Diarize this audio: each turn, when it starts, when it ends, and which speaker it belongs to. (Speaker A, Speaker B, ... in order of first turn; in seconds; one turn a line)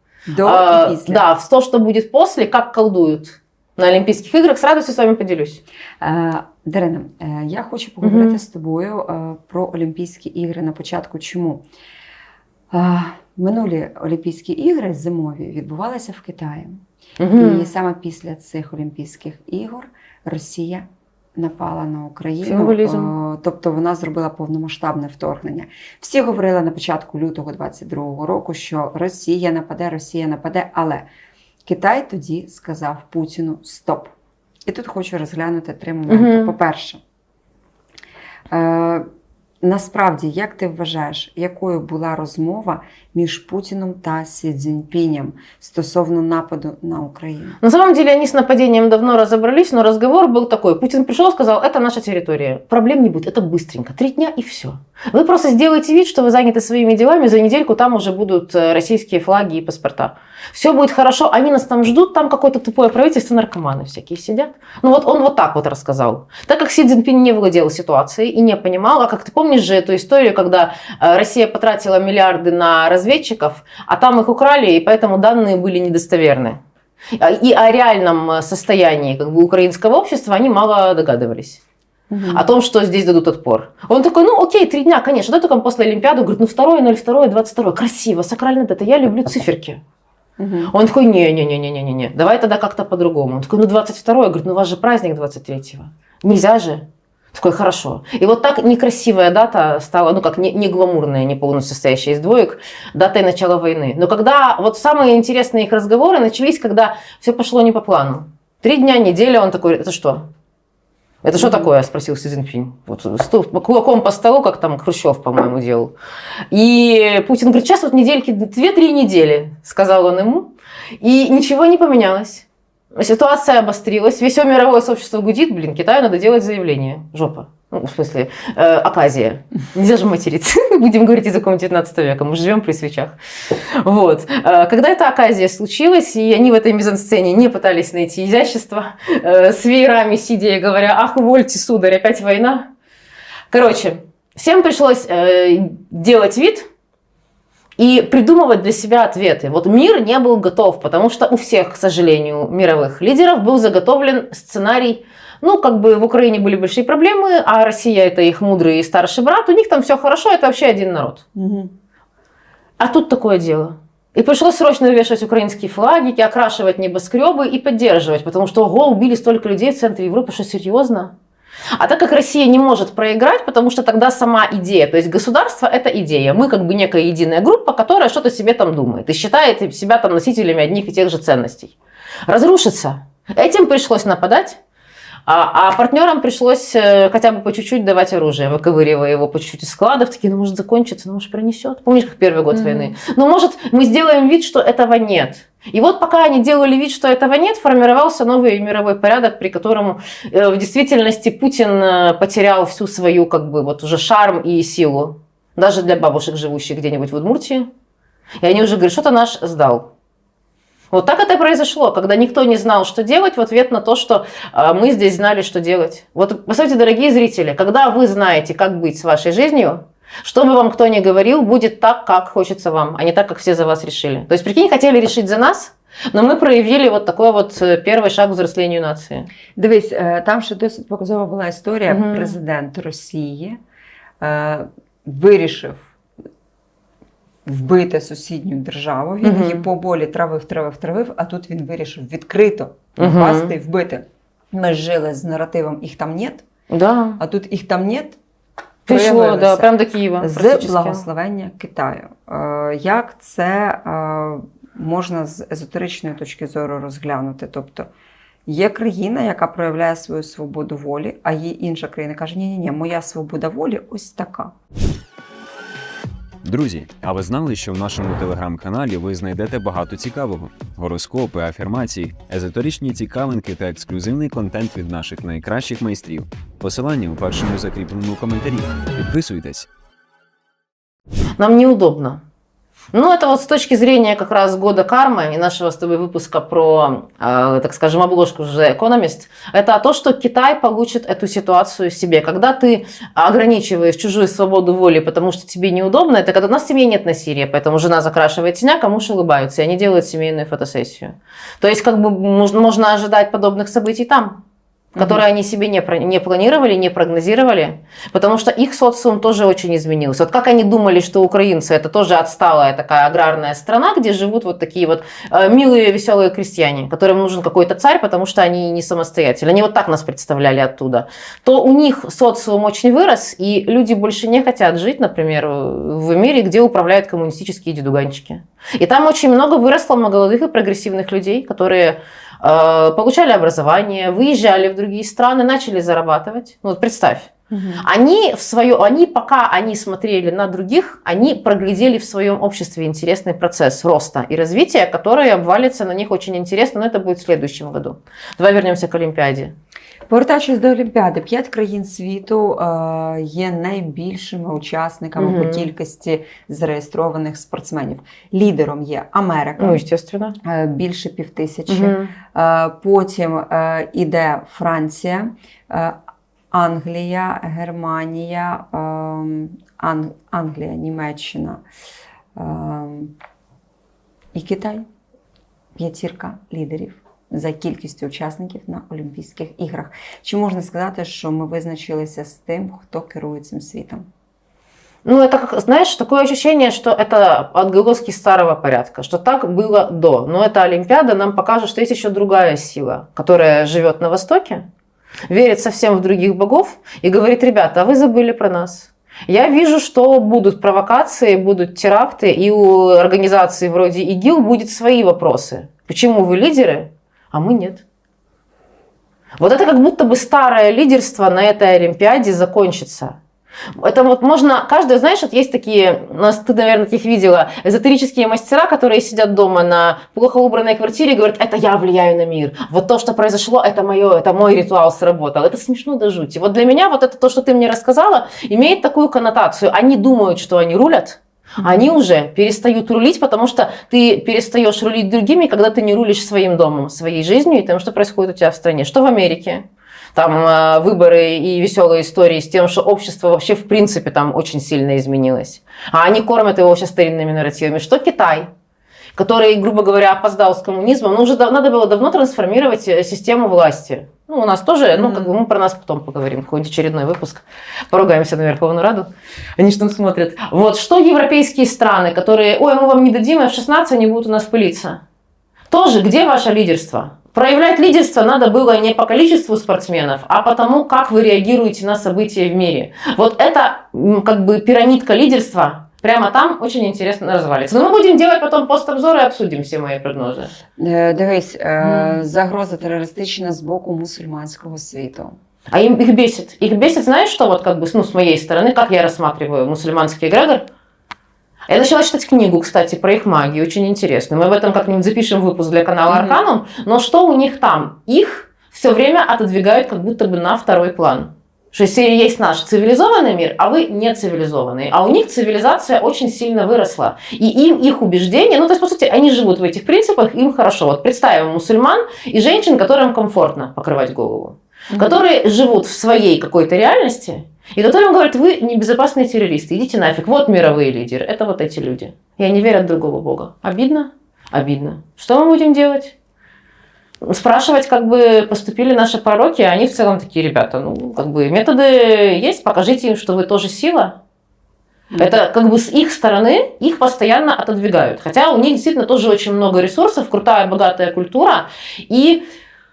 Speaker A: 0.3-1.2
Speaker B: 0.4-5.6
Speaker A: 6.0-11.7
Speaker B: 8.0-8.4
Speaker A: 12.7-16.8
Speaker B: 17.2-17.7
Speaker A: 17.3-31.1
Speaker B: 22.4-23.1
Speaker A: 31.6-34.1
Speaker A: 34.7-37.0
Speaker B: 36.1-36.5
Speaker A: 38.5-39.1
Speaker A: 39.6-47.6
Speaker B: 47.6-76.6
Speaker B: 77.2-81.6
Speaker A: 82.1-82.5
Speaker B: 82.3-89.8
Speaker A: 90.4-90.7
Speaker B: 90.7-110.3
Speaker B: 111.2-115.9
Speaker A: 111.4-111.7
Speaker B: 116.5-120.5
Speaker B: 121.0-133.1
Speaker B: 133.7-142.7
Speaker B: 143.5-146.7
Speaker B: 147.8-161.2
Speaker A: 161.3-161.7
Speaker B: 162.8-171.1
Speaker B: 171.8-181.8
Speaker B: 182.3-184.6
Speaker B: 185.3-207.7
Speaker A: 192.5-192.9
Speaker B: 208.4-209.9
Speaker B: 210.9-229.3
Speaker A: 229.6-233.6
Speaker B: 231.9-232.3
Speaker A: 234.2-235.9
Speaker A: 237.4-246.4
Speaker B: 239.2-239.7
Speaker B: 243.0-243.5
Speaker B: 246.7-247.2
Speaker A: 247.2-248.2
Speaker A: 248.8-257.9
Speaker B: 248.9-251.0
Speaker A: 258.4-264.5
Speaker C: 266.4-279.7
Speaker B: 281.4-282.2
Speaker B: 282.9-304.4
Speaker A: 304.9-305.2
Speaker B: 304.9-349.5
Speaker A: 337.5-337.8
Speaker A: 350.1-359.8
Speaker B: 355.2-355.7
Speaker B: 359.6-360.4
Speaker A: 360.4-366.0
Speaker B: 361.7-362.1
Speaker A: 366.5-371.6
Speaker A: 372.3-373.1
Speaker A: 374.3-374.9
Speaker A: 375.8-384.1
Speaker B: 385.0-394.6
Speaker B: 395.3-407.8
Speaker B: 409.4-413.2
Speaker B: 413.8-448.5
Speaker A: 431.6-431.9
Speaker B: 449.1-465.0
Speaker A: 454.9-455.3
Speaker B: 465.7-480.5
Speaker A: 480.8-485.4
Speaker B: 481.8-482.2
Speaker B: 485.7-490.6
Speaker B: 491.7-526.1
Speaker A: 496.1-496.4
Speaker A: 514.9-515.2
Speaker B: 527.2-534.2
Speaker B: 535.2-542.4